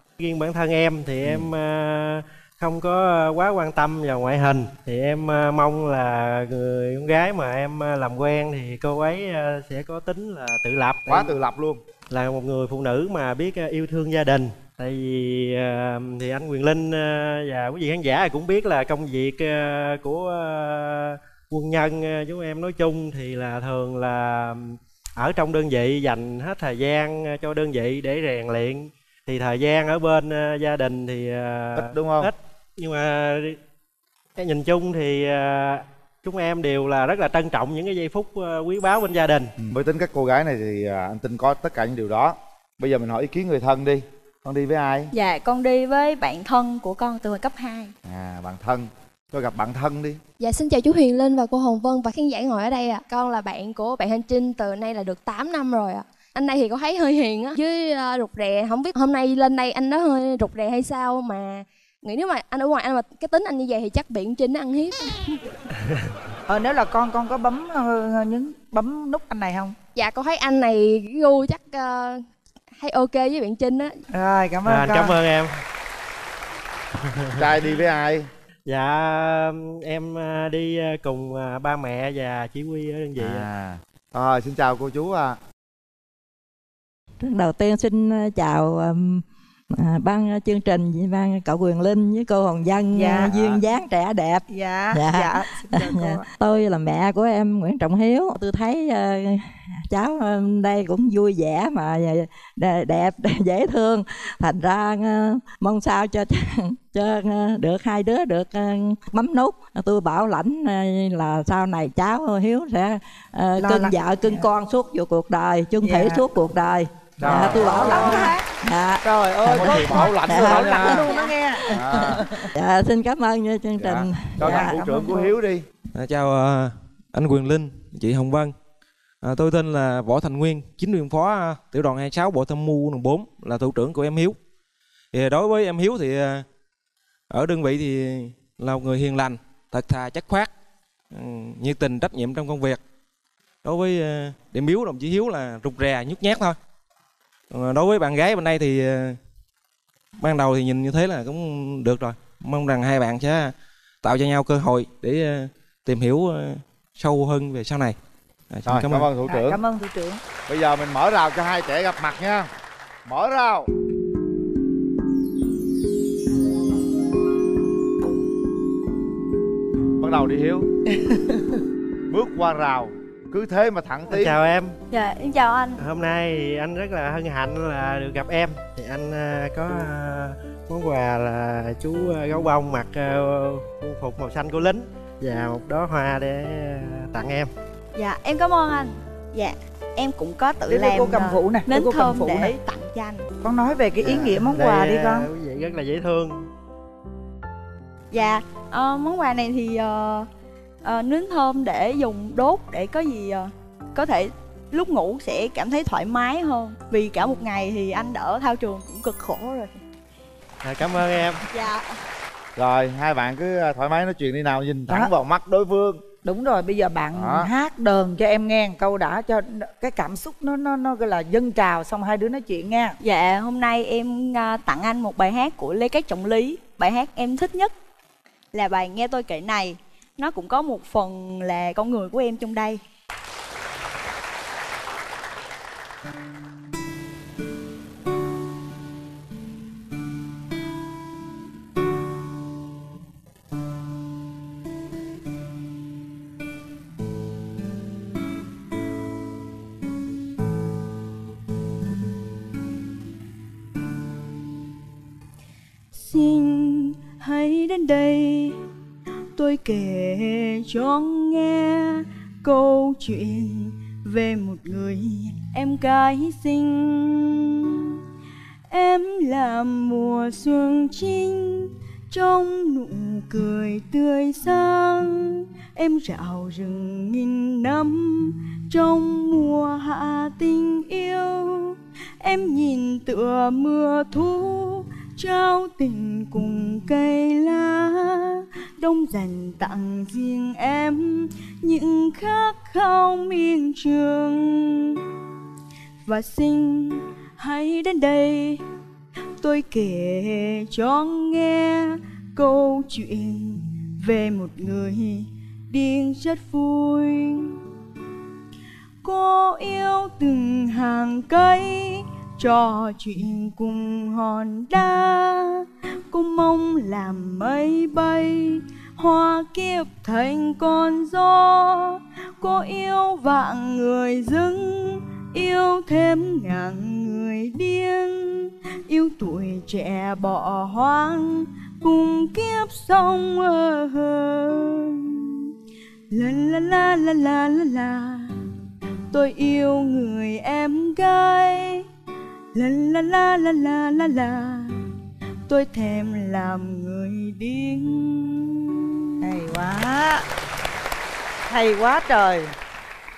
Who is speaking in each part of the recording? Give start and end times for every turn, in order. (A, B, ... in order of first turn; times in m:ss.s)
0:00.2-0:11.3 A
0:11.1-0:11.8 B
0:12.1-0:33.6 A
0:31.8-0:32.3 B
0:34.4-0:39.5 A
0:39.6-0:45.1 B
0:45.1-0:47.9 C
0:48.0-0:50.2 B
0:50.4-1:05.5 D
1:06.5-1:09.7 E
1:10.0-1:12.2 D
1:12.8-1:13.9 D
1:14.1-1:15.2 E
1:14.6-1:15.6 A
1:17.0-1:17.6 A
1:17.4-1:18.3 B
1:18.6-1:23.5 A
1:23.2-1:25.4 B
1:27.2-1:29.2 F
1:29.8-2:04.7 F
1:32.9-1:33.3 E
1:33.2-1:33.6 B
1:34.5-1:36.2 E
1:53.6-1:54.5 E
1:55.8-1:56.3 E
1:57.2-1:57.9 B
1:57.5-1:58.4 E
1:57.6-1:58.4 C
1:59.0-2:02.4 E
1:59.5-2:01.1 B
2:01.7-2:02.2 B
2:03.8-2:05.6 B
2:04.4-2:05.3 E
2:05.9-2:08.5 G
2:09.2-2:14.4 G
2:15.1-2:16.4 G
2:17.3-2:20.5 G
2:21.1-2:22.8 G
2:23.6-2:26.6 G
2:27.5-2:29.2 G
2:30.2-2:38.0 G
2:38.5-2:39.1 G
2:38.6-2:39.6 B
2:39.2-2:40.2 E
2:40.4-2:42.5 B
2:43.0-2:43.7 B
2:50.0-2:50.7 B
2:51.0-2:51.4 E
2:52.1-2:54.3 B
2:54.1-2:54.8 A
2:54.9-2:55.8 C
2:55.8-3:07.5 A
3:08.0-3:13.2 C
3:10.7-3:12.6 E
3:13.4-3:15.3 E
3:14.0-3:16.4 A
3:18.1-3:20.3 C
3:20.8-3:29.8 C
3:30.6-3:31.4 A
3:31.5-3:31.9 C
3:32.6-3:36.1 B
3:36.2-3:43.0 E
3:37.1-3:37.5 B
3:43.0-3:47.7 C
3:48.5-3:52.8 C
4:15.9-4:18.6 C
4:19.4-4:28.0 C
4:28.7-4:55.0 C
4:56.0-4:58.6 C
4:59.4-5:07.6 C
5:09.0-5:35.5 C
5:36.1-5:38.3 C
5:39.1-5:41.8 C
5:42.5-5:44.8 C
5:45.5-5:48.9 C
5:49.2-5:50.2 E
5:51.5-5:52.5 E